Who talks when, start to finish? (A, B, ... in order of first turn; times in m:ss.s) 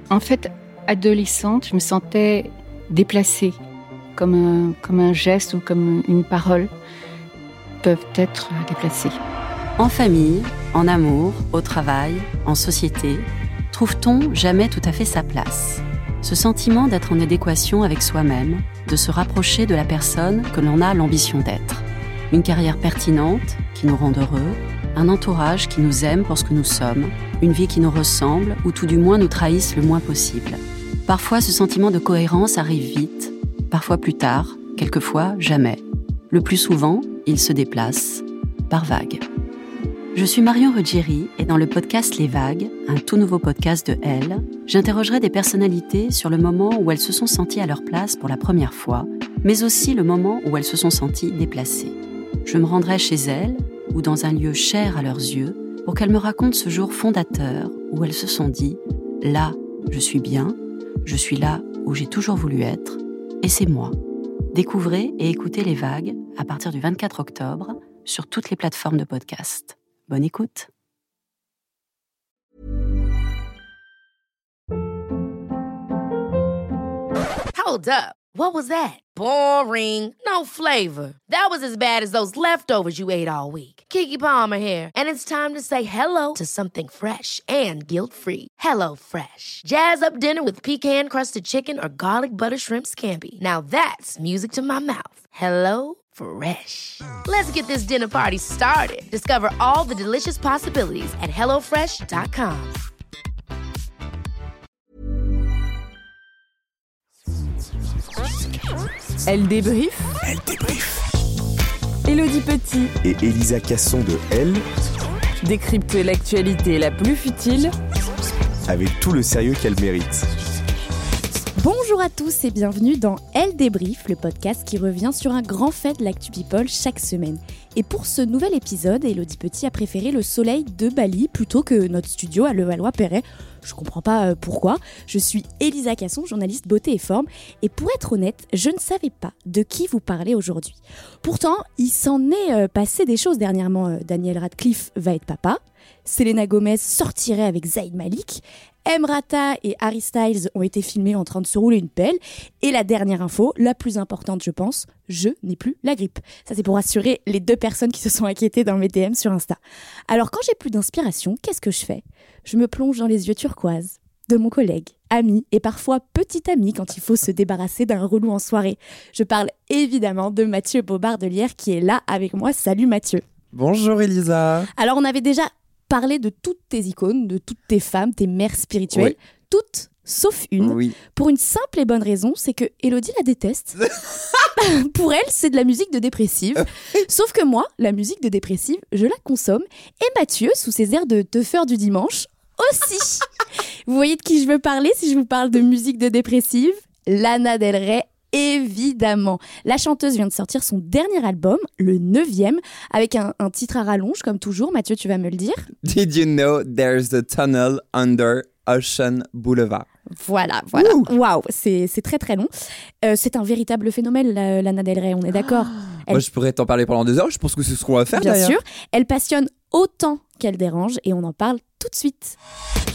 0:00.1-0:03.6 A
0:04.2-0:06.7 A
0:07.8-0:09.2 A
0:09.8-0:39.2 B
0:40.1-1:03.9 B
1:04.5-1:10.7 B
1:17.5-1:42.8 C
1:49.2-1:50.2 D
1:50.4-1:50.8 A
1:52.0-1:53.0 D
1:53.0-1:54.6 E
1:55.4-1:57.7 D
1:58.7-2:00.2 E
2:01.6-2:53.2 F
2:53.5-2:54.7 G
2:54.8-3:03.8 F
3:00.6-3:01.0 G
3:03.8-3:04.4 G
3:04.6-3:13.3 F
3:13.8-3:25.7 F
3:25.8-3:29.9 G
3:30.1-3:32.5 F
3:30.7-3:31.1 G
3:33.0-3:36.2 F
3:35.3-3:38.6 G
3:38.1-3:42.4 F